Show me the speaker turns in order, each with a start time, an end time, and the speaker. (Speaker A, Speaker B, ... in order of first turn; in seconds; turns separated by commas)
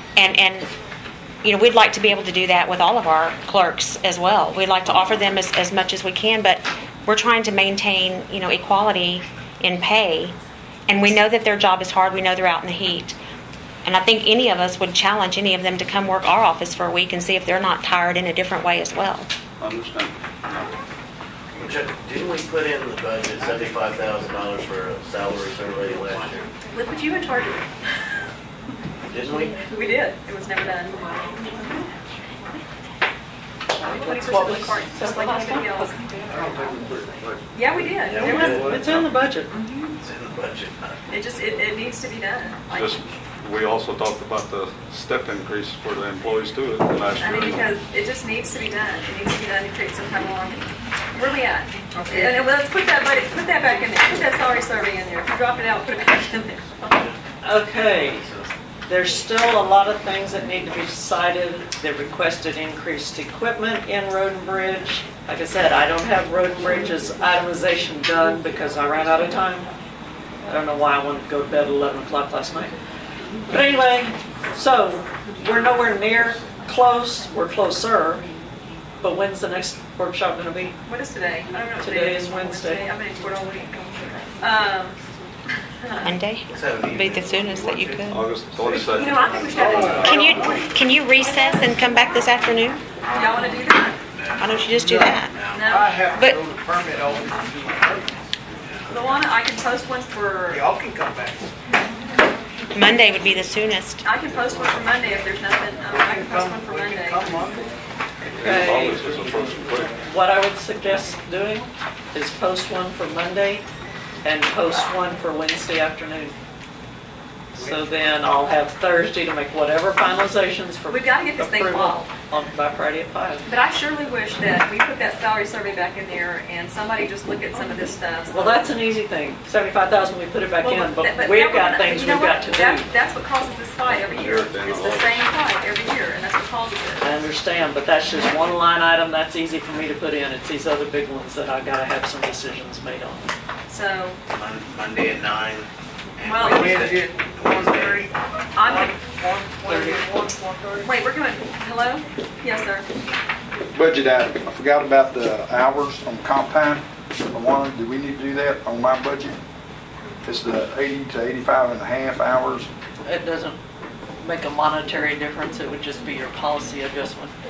Speaker A: 0.2-0.7, Speaker A: 1.4-10.3, Speaker A: 10.9-13.2, Speaker A: 13.8-19.3, Speaker B: 19.6-20.7, Speaker C: 21.6-26.5, Speaker D: 26.7-27.7, Speaker C: 29.0-29.6, Speaker D: 29.7-31.8, Speaker D: 33.8-36.0, Speaker E: 33.8-35.9, Speaker F: 36.3-36.8, Speaker D: 37.5-38.5, Speaker C: 38.1-38.8, Speaker E: 38.2-39.5, Speaker F: 38.5-39.0, Speaker D: 39.5-39.9, Speaker C: 40.0-41.0, Speaker D: 41.1-43.0, Speaker B: 42.7-47.7, Speaker D: 47.2-57.0, Speaker F: 52.0-52.3, Speaker E: 57.4-58.3, Speaker E: 58.9-69.7, Speaker E: 70.5-72.7, Speaker E: 73.5-78.3, Speaker E: 79.0-80.8, Speaker D: 80.9-85.0, Speaker E: 81.8-82.8, Speaker D: 85.8-86.1, Speaker A: 86.0-88.3, Speaker C: 86.5-90.0, Speaker B: 88.1-90.0, Speaker D: 88.8-90.7, Speaker F: 89.6-90.7, Speaker A: 90.0-92.8, Speaker D: 93.1-94.0, Speaker C: 94.1-94.5, Speaker A: 94.4-95.3, Speaker F: 94.8-98.2, Speaker C: 95.2-95.8, Speaker D: 95.5-96.0, Speaker A: 96.1-96.4, Speaker D: 98.9-100.6, Speaker F: 100.5-101.5, Speaker A: 102.7-104.0, Speaker D: 104.0-107.3, Speaker F: 105.9-107.7, Speaker B: 108.3-109.9, Speaker E: 108.4-109.1, Speaker E: 110.0-113.6, Speaker E: 114.2-116.3, Speaker E: 117.6-123.5, Speaker D: 120.9-122.1, Speaker D: 123.5-128.8, Speaker E: 128.3-132.9, Speaker D: 130.6-137.1, Speaker B: 133.9-135.3, Speaker E: 137.0-143.3, Speaker D: 143.7-144.2, Speaker C: 144.3-145.7, Speaker C: 146.2-148.1, Speaker D: 146.2-146.7, Speaker F: 146.4-150.9, Speaker D: 148.6-149.0, Speaker E: 149.7-150.0, Speaker D: 150.8-152.9, Speaker G: 153.7-159.4, Speaker G: 160.2-162.7, Speaker E: 163.0-163.6, Speaker E: 164.2-167.3